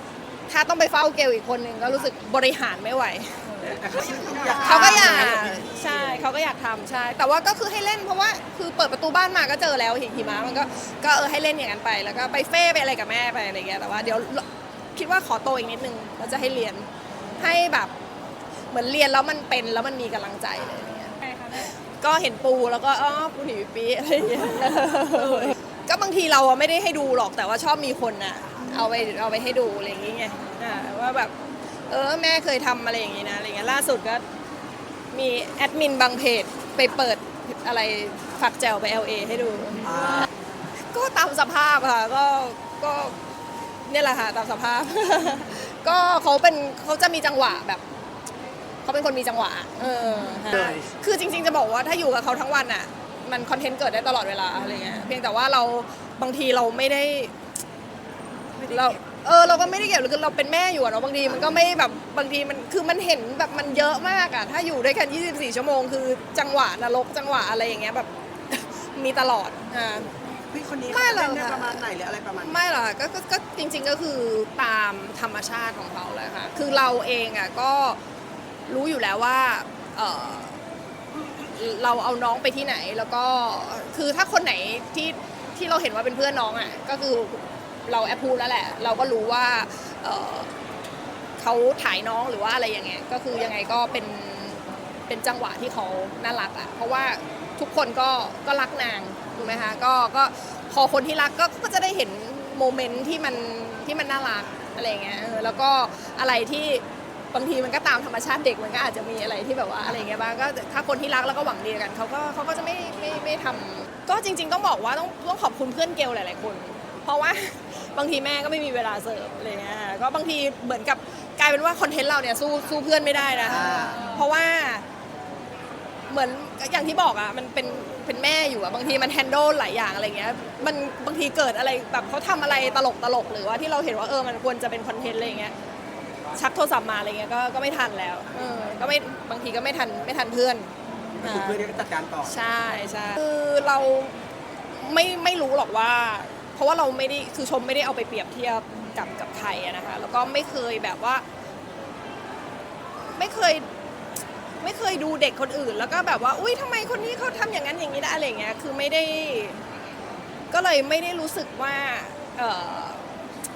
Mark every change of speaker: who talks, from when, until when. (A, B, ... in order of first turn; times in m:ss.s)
0:00.5-0:17.9 A
0:03.8-0:06.2 B
0:18.7-0:31.3 A
0:31.9-0:34.2 A
0:35.1-0:40.2 A
0:39.8-0:40.3 B
0:40.9-0:43.2 A
0:43.8-0:47.8 A
0:48.8-0:57.3 A
0:58.6-1:10.1 A
1:10.5-1:12.6 B
1:10.9-1:11.8 A
1:12.4-1:18.0 A
1:18.7-1:20.6 A
1:21.4-1:30.6 A
1:31.4-2:04.8 A
2:03.5-2:04.1 B
2:06.1-2:15.5 A
2:16.3-2:24.2 A
2:21.2-2:22.3 B
2:24.7-2:31.2 A
2:33.1-2:33.7 A
2:34.6-2:39.6 A
2:40.5-2:43.1 A